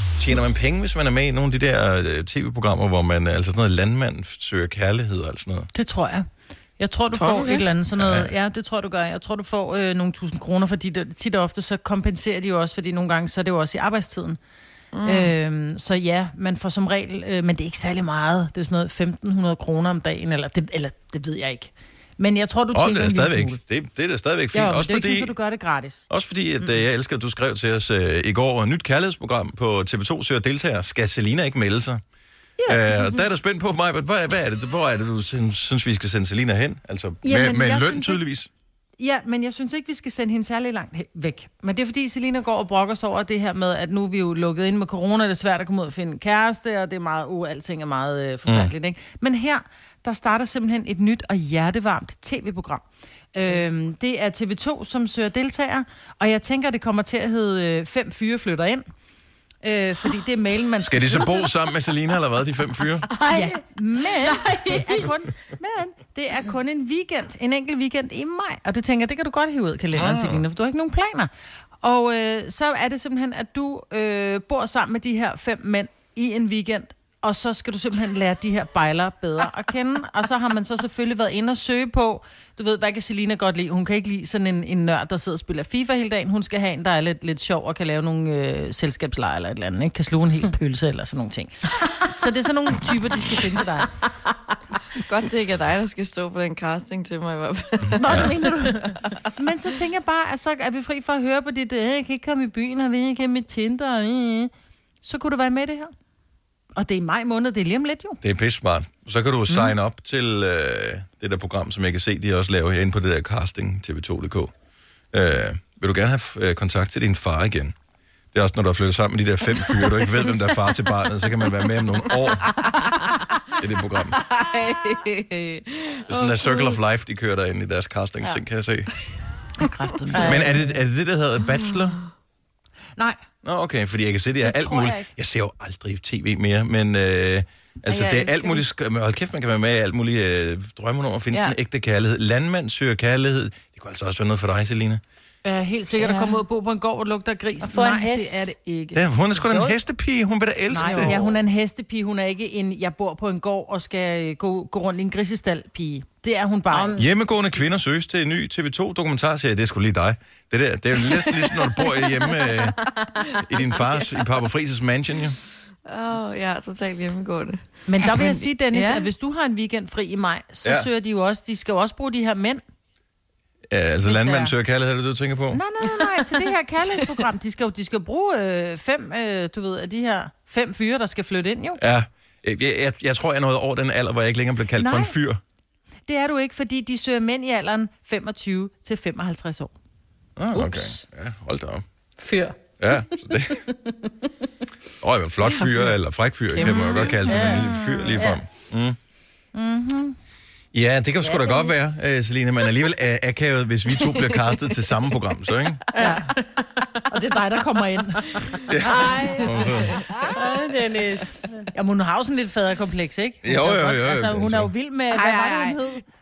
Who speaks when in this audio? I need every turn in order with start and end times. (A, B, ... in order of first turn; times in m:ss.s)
0:00.2-0:05.7 A
0:05.7-0:06.3 B
0:06.8-0:14.4 B
0:07.1-0:07.6 C
0:07.9-0:08.3 A
0:14.9-0:15.3 C
0:15.0-0:23.6 B
0:22.7-0:25.3 A
0:24.5-0:26.1 B
0:26.1-0:32.0 A
0:32.6-0:33.2 B
0:32.6-0:38.5 A
0:37.2-0:38.2 B
0:39.0-0:58.8 B
0:48.4-0:48.7 A
0:59.6-1:01.5 B
1:00.8-1:03.1 A
1:03.2-1:03.5 D
1:03.2-1:34.0 B
1:04.4-1:04.9 D
1:09.9-1:10.4 A
1:34.9-1:38.4 C
1:37.9-1:44.5 B
1:45.0-1:45.9 B
1:46.8-1:48.2 B
1:48.2-1:54.5 A
1:55.1-1:57.7 A
1:58.3-2:02.7 A
2:02.2-2:03.1 C
2:03.5-2:04.2 A
2:04.1-2:06.8 C
2:06.1-2:08.9 A
2:09.6-2:10.8 B
2:10.2-2:12.0 A
2:13.4-2:25.0 A
2:14.6-2:15.0 B
2:18.1-2:18.5 B
2:25.4-2:29.0 B
2:26.0-2:26.4 C
2:27.6-2:28.5 D
2:28.9-2:31.2 A
2:30.7-2:37.0 B
2:36.7-2:37.0 D
2:36.9-2:45.4 A
2:41.1-2:42.2 C
2:45.8-2:49.1 C
2:47.9-2:52.6 B
2:53.7-2:55.6 A
2:54.0-2:54.5 B
2:55.5-3:01.8 B
3:01.8-3:05.4 A
3:04.7-3:05.2 B
3:06.0-3:09.7 B
3:10.4-3:11.8 A
3:12.2-3:12.6 D
3:12.8-3:13.7 A
3:15.0-3:19.0 A
3:15.4-3:15.9 C
3:16.5-3:17.7 C
3:16.9-3:18.4 B
3:19.5-3:20.2 B
3:20.7-3:25.8 A
3:21.4-3:21.7 B
3:24.1-3:24.7 C
3:25.9-3:26.4 B
3:27.1-3:30.6 B
3:28.6-3:30.0 A
3:30.4-3:31.4 D
3:31.5-3:36.0 B
3:33.4-3:34.7 A
3:35.1-3:35.8 C